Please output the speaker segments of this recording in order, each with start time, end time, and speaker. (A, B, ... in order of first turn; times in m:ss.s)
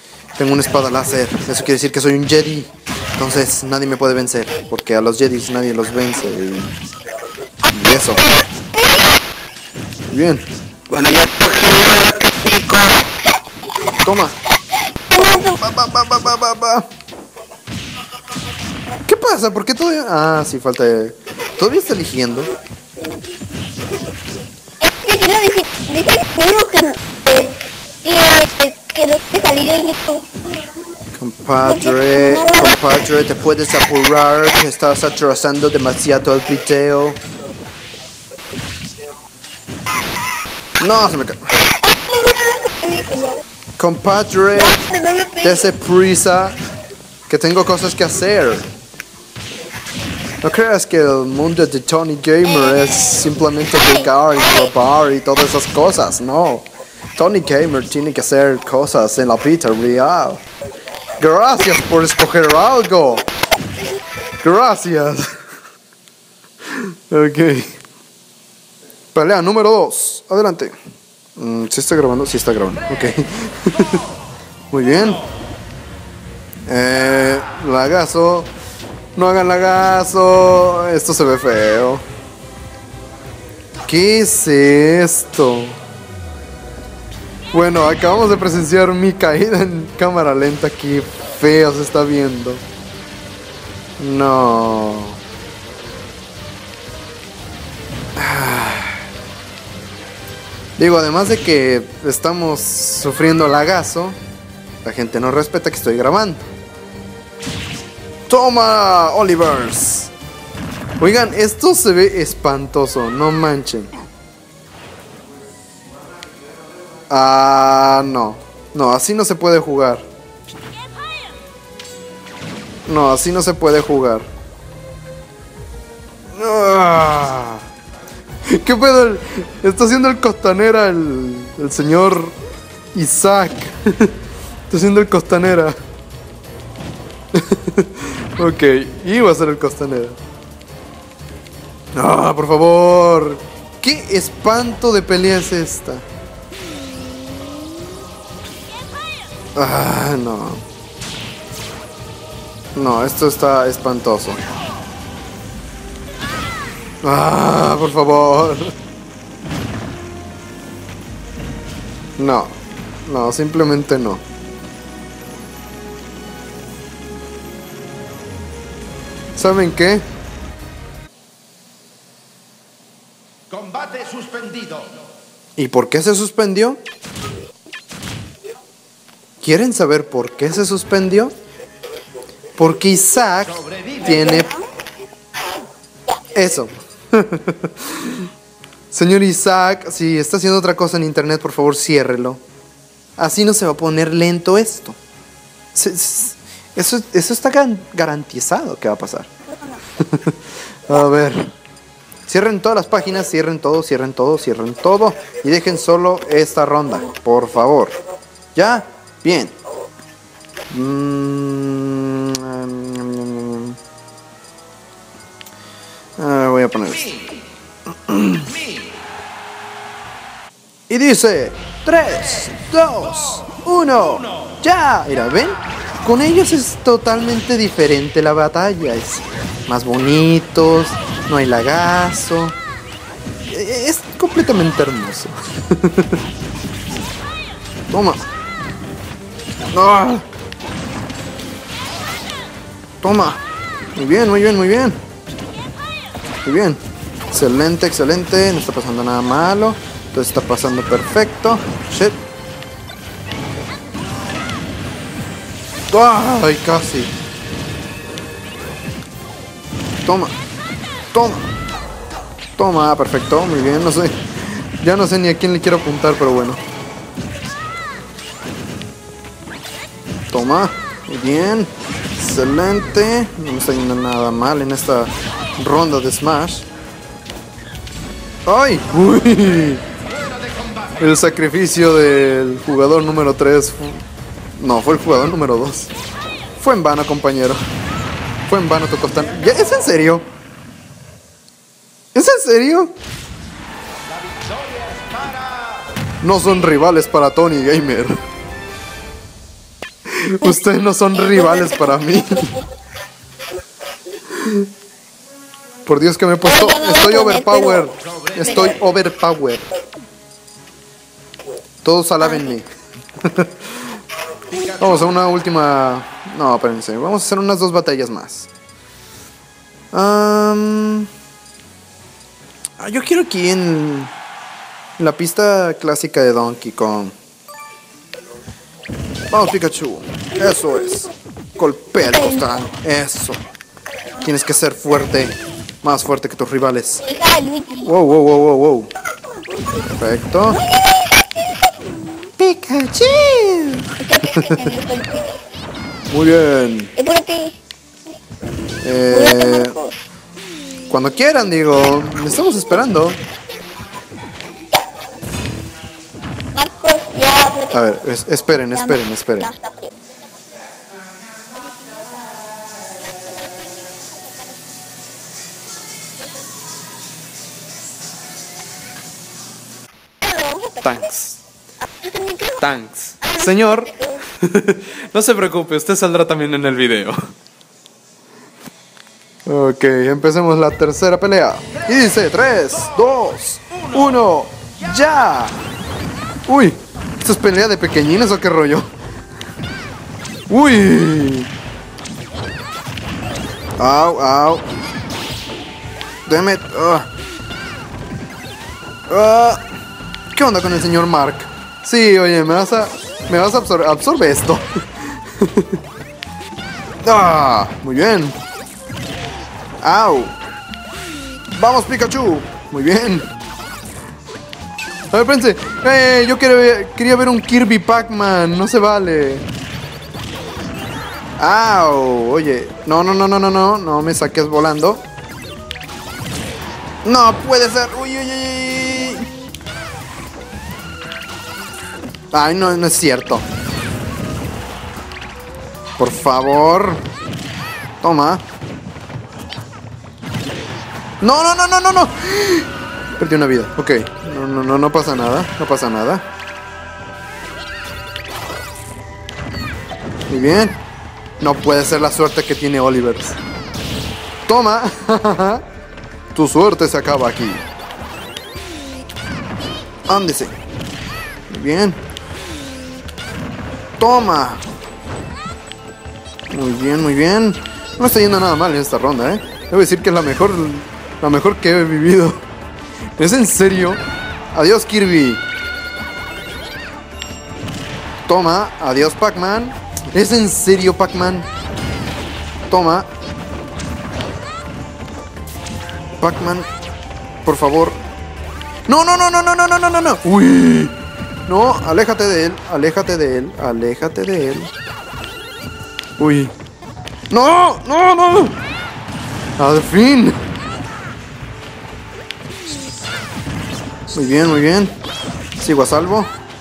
0:00.4-0:06.7 A
0:07.7-0:08.3 A
0:10.1-0:10.4 A
0:10.9-0:13.0 B
0:14.0-0:14.4 A
0:15.1-0:15.6 C
0:15.2-0:16.9 A
0:19.0-0:22.5 A
0:24.8-0:30.3 C
0:31.2-0:37.2 A
0:31.6-0:32.8 C
0:40.8-0:41.4 A
0:41.8-0:43.4 C
0:43.8-0:44.8 A
0:44.6-0:45.7 C
0:45.4-0:46.6 A
0:47.3-0:48.7 A
0:50.4-1:00.4 A
0:53.8-0:54.1 C
1:01.2-1:03.3 A
1:04.4-1:05.4 A
1:06.7-1:07.8 A
1:09.1-1:10.8 A
1:11.4-1:14.0 A
1:14.7-1:15.2 A
1:16.7-1:18.5 A
1:19.2-1:22.0 A
1:23.8-1:25.8 A
1:27.5-1:32.6 A
1:34.0-1:35.2 A
1:38.2-1:39.0 A
1:40.8-1:44.2 A
1:44.8-1:46.5 A
1:48.3-1:50.1 A
1:51.0-1:53.9 A
1:57.1-2:00.0 A
2:02.9-2:04.3 A
2:06.3-2:07.6 A
2:08.5-2:12.4 A
2:12.9-2:14.2 A
2:14.7-2:15.8 A
2:17.3-2:20.2 A
2:22.0-2:26.0 A
2:29.6-2:30.6 A
2:32.8-2:34.4 A
2:37.0-2:38.8 A
2:42.2-2:42.5 A
2:43.0-2:44.2 A
2:49.4-2:50.0 A
2:55.6-2:56.8 A
2:59.4-3:01.3 A
3:02.6-3:04.6 A
3:06.3-3:08.3 A
3:08.9-3:12.4 A
3:13.2-3:15.0 A
3:15.7-3:19.3 A
3:20.0-3:21.5 A
3:22.3-3:28.0 A
3:28.6-3:29.6 A
3:30.7-3:33.8 A
3:36.2-3:37.2 A
3:38.1-3:38.5 A
3:40.9-3:52.6 A
3:53.5-3:56.2 A
3:57.9-3:58.2 A
3:59.7-4:00.2 A
4:03.0-4:03.4 A
4:04.0-4:05.0 A
4:06.4-4:06.8 A
4:07.3-4:12.2 A
4:15.9-4:17.1 A
4:20.0-4:20.4 A
4:21.1-4:21.5 A
4:22.6-4:26.6 A
4:30.3-4:36.7 A
4:38.5-4:39.8 A
4:41.0-4:44.0 A
4:44.6-4:45.9 A
4:46.6-4:47.6 A
4:48.5-4:50.3 A
4:52.1-4:52.9 A
4:56.2-4:58.1 A
5:00.1-5:02.5 A
5:01.2-5:02.6 C
5:04.3-5:04.7 A
5:05.8-5:09.7 A
5:06.4-5:08.8 C
5:11.8-5:12.7 A
5:13.2-5:13.8 A
5:14.6-5:18.5 A
5:19.9-5:21.1 A
5:22.8-5:24.1 A
5:25.0-5:27.1 A
5:29.3-5:33.4 A
5:32.0-5:32.5 C
5:34.2-5:37.0 A
5:37.0-5:37.9 C
5:37.8-5:38.9 A
5:39.9-5:40.6 A
5:40.5-5:41.1 C
5:42.4-5:44.6 A
5:44.0-5:45.4 C
5:46.1-5:46.9 A
5:47.0-5:47.6 C
5:48.8-5:49.8 A
5:49.1-5:49.9 C
5:50.9-5:53.2 A
5:56.5-5:57.8 C
5:57.7-5:59.5 A
5:58.7-6:00.0 C
6:10.2-6:11.0 C
6:10.8-6:11.4 A
6:11.9-6:12.6 C
6:12.6-6:17.2 A
6:13.4-6:14.2 C
6:19.5-6:25.6 A
6:26.5-6:28.9 A
6:30.5-6:31.5 A
6:33.8-6:34.7 A
6:36.3-6:37.1 A
6:39.1-6:39.6 A
6:40.3-6:45.8 A
6:47.0-6:48.4 A
6:49.8-6:50.4 A
6:51.5-6:53.3 A
6:55.1-6:59.5 A
7:01.4-7:05.0 A
7:07.0-7:09.3 A
7:12.3-7:13.4 A
7:16.0-7:17.0 A
7:18.0-7:18.4 A
7:21.2-7:26.2 A
7:30.3-7:30.8 A
7:31.4-7:33.4 A
7:34.5-7:35.6 A
7:36.3-7:37.7 A
7:40.1-7:40.5 A
7:41.5-7:42.0 A
7:44.0-7:44.6 A
7:46.5-7:52.4 A
7:53.2-7:54.0 A
7:54.5-7:55.4 A
7:58.3-8:01.5 A
8:02.7-8:03.1 A
8:06.2-8:06.7 A
8:07.4-8:08.0 A
8:08.9-8:11.0 A
8:11.5-8:14.7 A
8:16.2-8:16.5 A
8:17.3-8:18.6 A
8:19.6-8:20.4 A
8:24.1-8:24.9 A
8:25.6-8:26.3 A